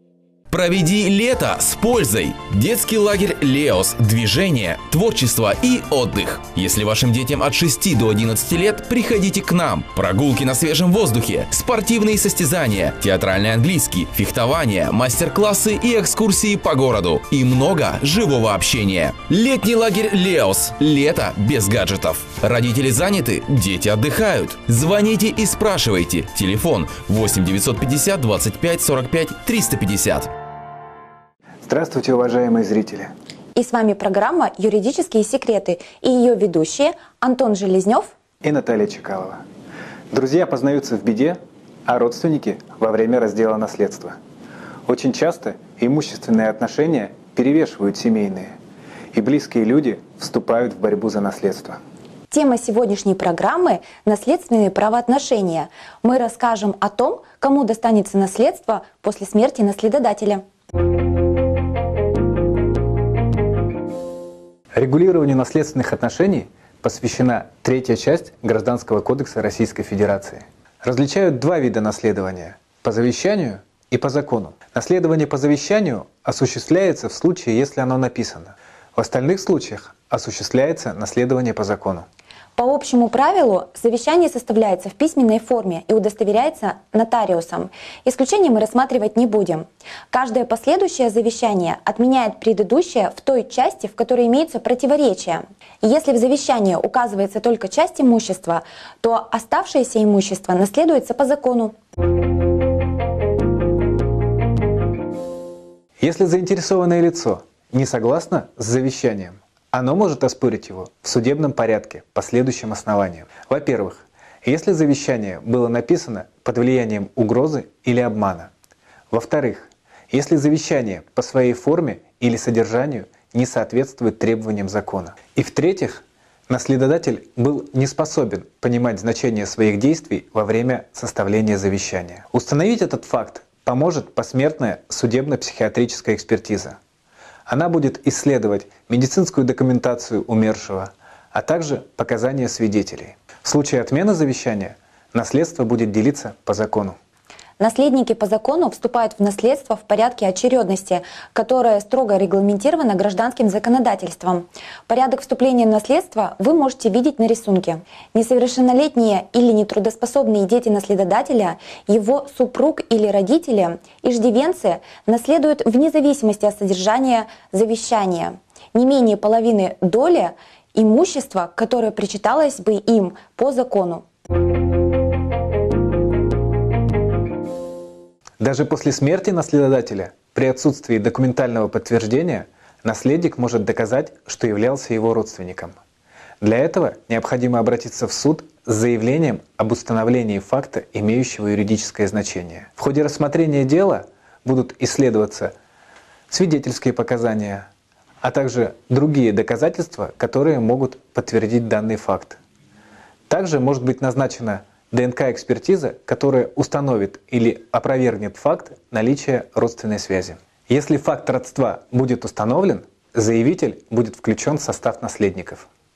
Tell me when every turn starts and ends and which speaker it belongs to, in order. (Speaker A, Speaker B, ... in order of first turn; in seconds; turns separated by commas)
Speaker A: 0.5-30.3, Speaker B: 31.6-33.1, Speaker C: 33.5-38.1, Speaker B: 38.4-39.4, Speaker B: 40.1-44.2, Speaker B: 44.9-48.5, Speaker B: 49.1-51.8, Speaker C: 52.3-60.4, Speaker B: 64.8-82.1, Speaker C: 82.6-101.8, Speaker B: 106.0-118.5, Speaker B: 119.1-136.8, Speaker B: 137.5-147.0, Speaker C: 147.6-174.1, Speaker B: 178.4-185.7, Speaker B: 186.4-195.5, Speaker B: 196.3-197.7, Speaker B: 198.2-202.4, Speaker B: 203.3-215.7